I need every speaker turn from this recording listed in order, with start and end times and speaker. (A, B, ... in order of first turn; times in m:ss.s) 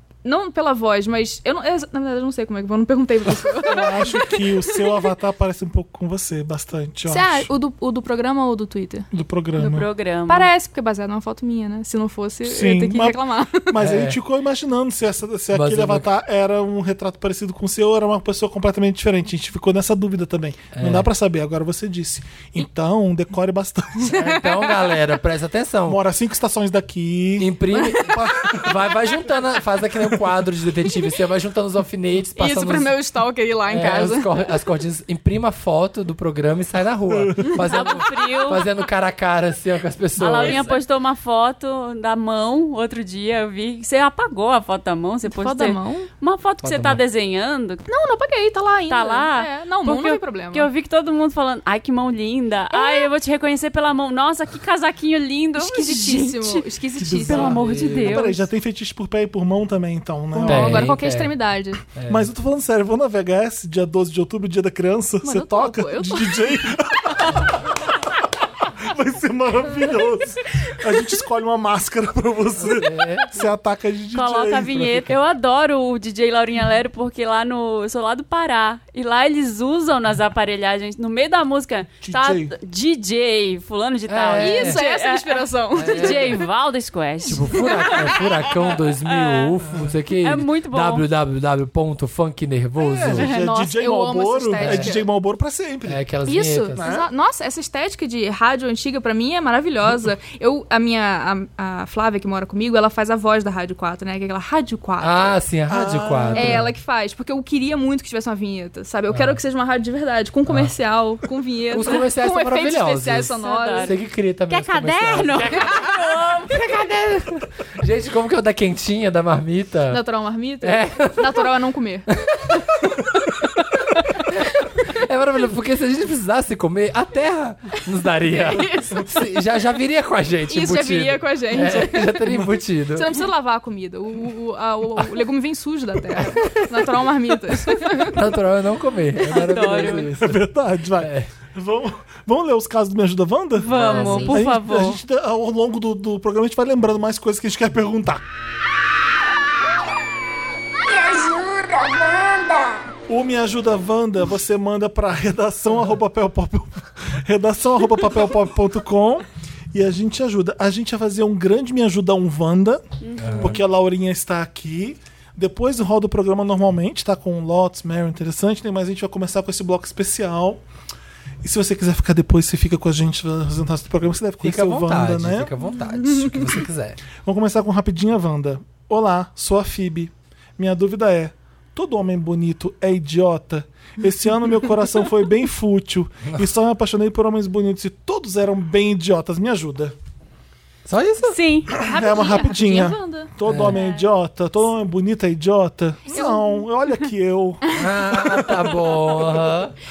0:00.2-0:05.1 A
0:03.6-0:07.5 B
0:07.1-0:09.1 A
0:09.1-0:09.9 B
0:09.6-0:10.5 C
0:10.3-0:13.8 A
0:12.4-0:24.2 B
0:13.8-0:14.2 D
0:15.5-0:16.1 D
0:20.8-0:21.1 D
0:24.0-0:26.0 D
0:24.1-0:24.9 A
0:25.9-0:28.8 B
0:27.4-0:32.9 D
0:27.7-0:28.2 A
0:32.4-0:34.4 A
0:33.7-0:40.6 D
0:37.6-0:38.7 C
0:40.2-0:47.8 C
0:40.3-0:40.8 A
0:45.3-0:46.1 A
0:46.6-0:47.0 D
0:47.9-0:50.7 A
0:48.9-0:58.5 C
0:52.7-0:53.1 A
0:55.6-0:57.6 A
0:57.0-1:00.9 B
0:57.3-0:58.2 D
1:00.3-1:01.8 A
1:00.4-1:01.3 D
1:02.0-1:02.3 D
1:02.1-1:07.7 B
1:05.2-1:06.5 A
1:08.8-1:15.2 B
1:12.6-1:13.3 D
1:14.1-1:28.3 C
1:22.0-1:22.5 B
1:24.1-1:24.8 D
1:24.4-1:26.4 A
1:25.8-1:26.4 D
1:27.2-1:33.3 D
1:27.5-1:28.0 A
1:29.0-1:29.6 C
1:29.6-1:29.9 B
1:30.1-1:31.1 C
1:32.8-1:36.0 B
1:33.1-1:35.1 A
1:34.6-1:34.9 D
1:35.9-1:36.8 D
1:36.3-1:45.4 A
1:36.8-1:37.1 B
1:45.0-1:46.7 D
1:45.7-1:46.7 B
1:46.3-1:53.9 A
1:49.1-1:49.4 D
1:50.5-1:50.7 D
1:51.7-1:55.9 D
1:53.4-1:53.9 C
1:54.5-1:56.6 C
1:56.4-2:00.0 D
1:59.9-2:02.1 A
2:00.6-2:01.5 D
2:02.1-2:02.9 D
2:03.9-2:13.2 D
2:08.4-2:09.1 A
2:10.5-2:18.3 A
2:16.1-2:17.1 D
2:17.6-2:20.4 D
2:19.2-2:20.1 C
2:20.1-2:28.2 B
2:21.0-2:21.3 D
2:23.6-2:25.0 C
2:23.7-2:24.4 A
2:23.7-2:24.3 D
2:30.9-2:32.9 E
2:33.1-2:42.8 B
2:43.0-2:43.6 C
2:43.2-2:43.6 D
2:43.4-2:50.6 B
2:51.4-2:55.5 B
2:54.4-2:57.0 D
2:57.2-3:10.0 B
3:10.9-3:11.4 D
3:11.2-3:11.7 C
3:11.8-3:17.7 B
3:11.8-3:13.3 A
3:13.4-3:13.8 D
3:13.7-3:14.0 C
3:16.1-3:16.6 A
3:17.7-3:18.8 A
3:17.8-3:19.7 D